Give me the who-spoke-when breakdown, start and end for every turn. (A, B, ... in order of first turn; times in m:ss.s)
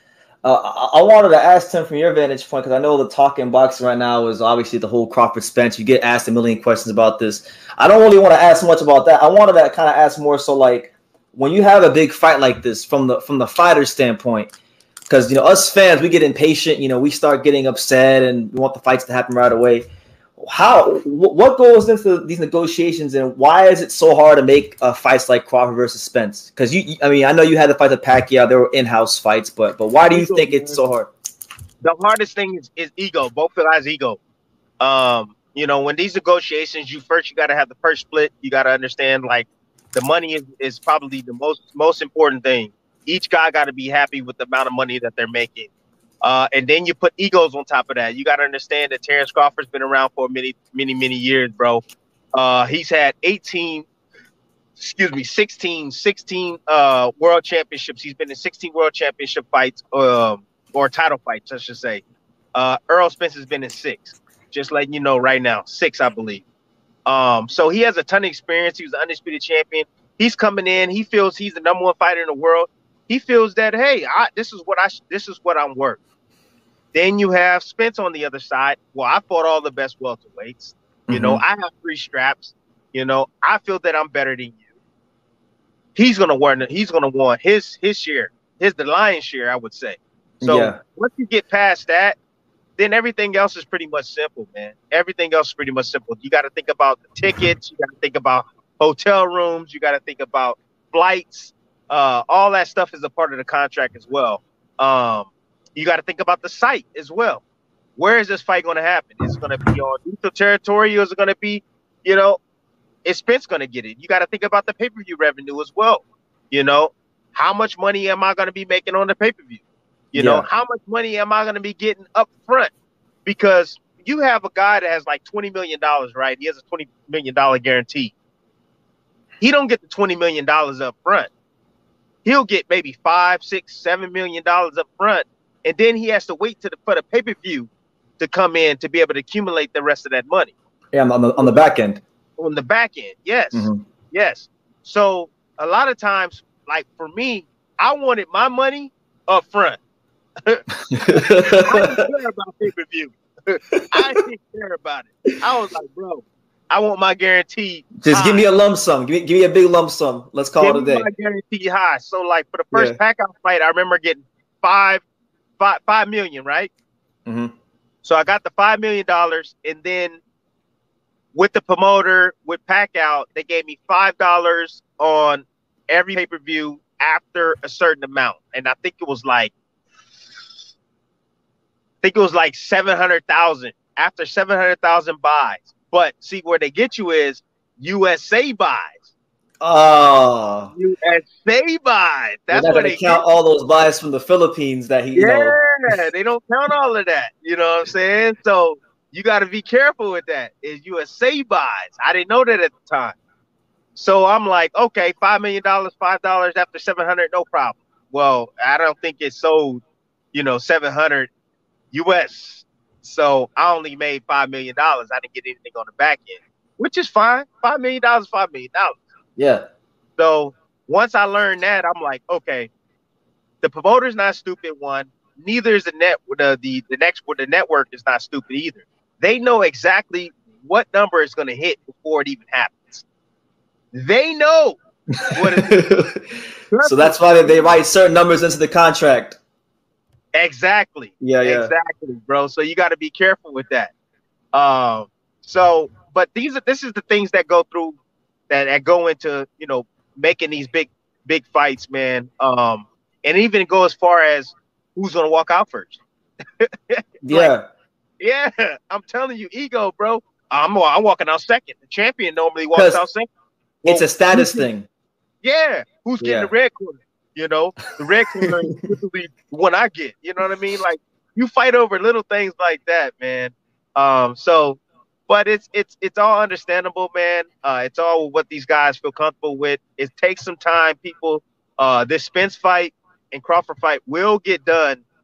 0:00.4-0:14.5 A
0:15.1-0:19.9 A
0:20.4-0:31.1 A
0:30.1-0:30.8 B
0:31.8-0:34.2 B
0:34.8-0:45.7 B
0:46.2-0:51.8 B
0:52.3-0:53.9 B
0:54.8-1:02.0 B
1:02.5-1:06.4 B
1:07.0-1:16.0 B
1:16.9-1:24.6 B
1:21.1-1:21.4 A
1:25.9-1:32.2 B
1:30.4-1:30.8 A
1:32.8-1:47.4 B
1:48.0-1:52.4 B
1:53.0-1:59.6 B
2:00.1-2:02.7 B
2:00.1-2:00.4 A
2:03.2-2:08.1 B
2:09.4-2:11.3 B
2:12.2-2:20.5 B
2:20.9-2:22.0 A
2:21.4-2:21.7 B
2:22.4-2:29.8 B
2:23.5-2:23.8 A
2:30.9-2:31.9 A
2:31.2-2:38.5 B
2:38.0-2:41.1 A
2:40.6-2:45.0 B
2:42.7-2:43.0 A
2:45.6-2:46.7 B
2:47.2-2:47.5 A
2:48.0-2:50.2 B
2:51.3-2:59.5 B
3:02.0-3:09.1 B
3:09.6-3:10.7 A
3:10.7-3:13.2 B
3:12.5-3:15.6 A
3:15.1-3:23.2 B
3:23.9-3:31.3 B
3:31.9-3:39.0 B
3:39.4-3:39.6 A
3:40.2-3:42.7 B
3:43.6-3:53.0 B
3:53.9-3:54.8 B
3:55.2-3:56.2 A
3:55.3-3:55.8 B
3:56.7-3:57.8 B
3:56.8-3:59.4 A
4:00.3-4:03.9 B
4:01.2-4:01.7 A
4:04.5-4:08.0 B
4:08.5-4:16.0 B
4:16.6-4:17.5 B
4:17.2-4:17.6 A
4:18.2-4:23.3 B
4:22.7-4:23.0 A
4:23.8-4:24.9 A
4:23.8-4:24.7 B
4:25.4-4:45.0 B
4:26.2-4:26.5 A